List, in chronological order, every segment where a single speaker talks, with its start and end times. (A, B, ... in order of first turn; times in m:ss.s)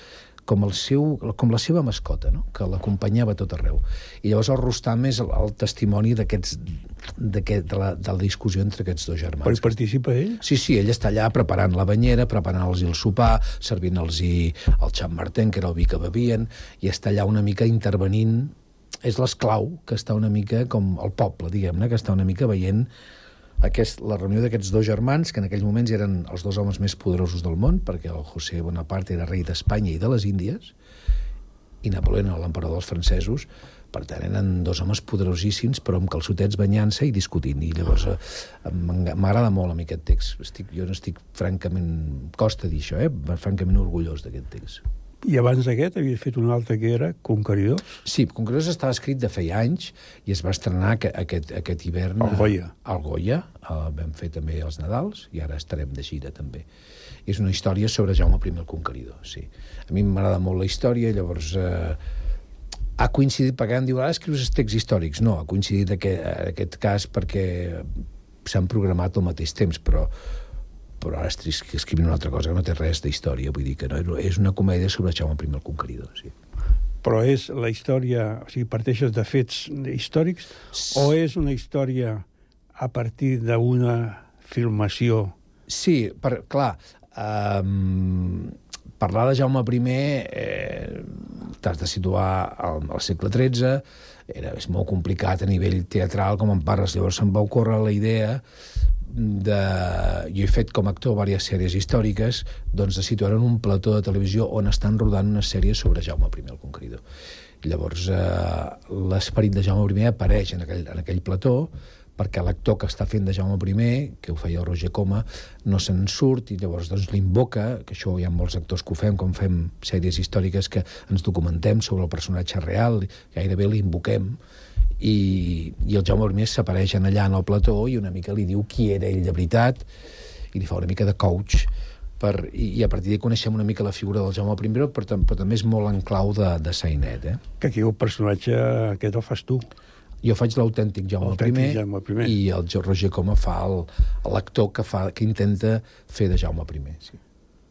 0:00.4-0:09.7 A
0:09.4-0:10.4 B
0:10.4-0:22.9 A
0:23.6-0:30.7 A
0:31.8-0:44.8 A
0:45.2-0:47.8 B
0:48.0-0:56.6 A
0:52.2-0:52.7 B
0:57.2-1:02.0 A
1:03.0-1:07.9 A
1:08.4-1:10.1 A
1:11.0-1:16.3 A
1:17.0-1:22.2 B
1:20.8-1:21.1 A
1:22.8-1:25.3 B
1:25.7-1:38.4 A
1:39.0-1:47.0 A
1:47.6-2:04.4 A
2:05.0-2:09.9 A
2:10.5-2:17.4 A
2:17.6-2:19.6 B
2:20.2-2:27.2 A
2:21.2-2:22.4 B